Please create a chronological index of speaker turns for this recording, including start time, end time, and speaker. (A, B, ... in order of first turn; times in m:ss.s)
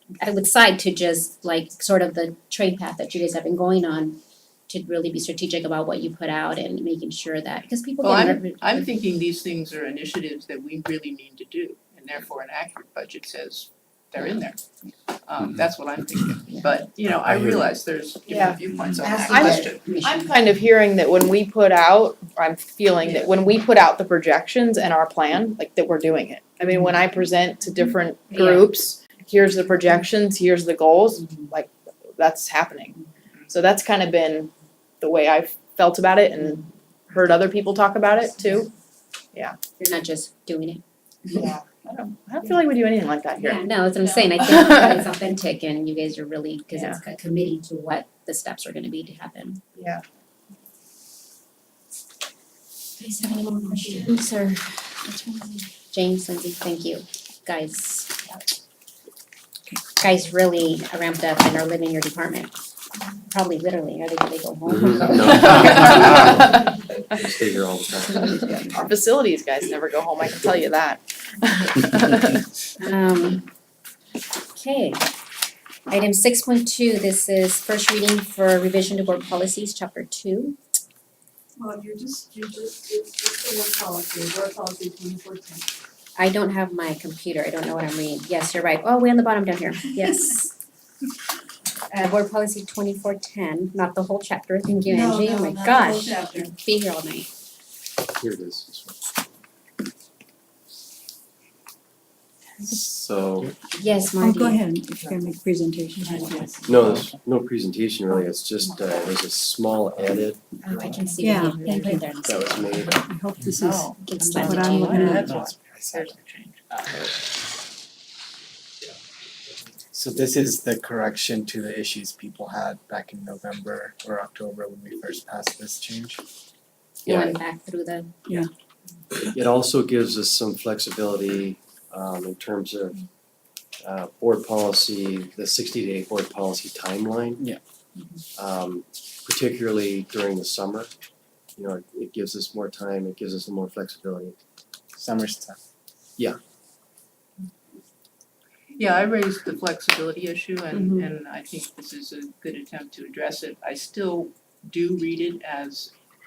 0:00.2-0:04.2 A
0:04.7-0:08.9 A
0:08.0-0:14.6 B
0:15.3-0:19.8 B
0:18.3-0:38.7 C
0:19.3-0:20.4 A
0:23.0-0:23.3 B
0:28.3-0:28.7 A
0:39.8-0:40.8 A
0:41.3-0:43.6 C
0:43.4-0:49.6 A
0:44.4-0:45.0 C
0:46.7-0:47.0 C
0:49.8-0:50.0 C
0:53.0-0:58.1 A
1:00.0-1:02.5 A
1:03.3-1:05.6 A
1:04.7-1:06.5 D
1:05.2-1:06.7 B
1:07.1-1:08.3 D
1:08.4-1:12.2 C
1:12.8-1:13.4 A
1:14.5-1:15.0 A
1:15.9-1:20.6 A
1:21.6-1:25.7 E
1:26.2-1:30.5 A
1:31.9-1:37.3 A
1:34.9-1:36.5 E
1:38.2-1:39.0 D
1:42.6-1:43.6 D
1:43.7-1:44.6 A
1:44.2-1:46.7 F
1:46.0-1:47.2 B
1:46.6-1:50.4 D
1:48.1-1:49.2 B
1:50.6-1:52.9 A
1:50.7-1:51.7 B
1:51.2-1:52.1 F
1:52.2-1:53.1 D
1:53.0-1:55.3 F
1:53.6-1:56.7 B
1:54.0-1:55.3 A
1:54.8-1:56.2 G
1:56.7-1:57.0 G
1:59.9-2:06.2 G
2:07.0-2:08.1 A
2:07.1-2:07.4 D
2:09.2-2:13.0 D
2:13.8-2:17.4 D
2:18.4-2:20.9 D
2:21.6-2:24.4 D
2:25.0-2:25.6 G
2:28.8-2:35.9 B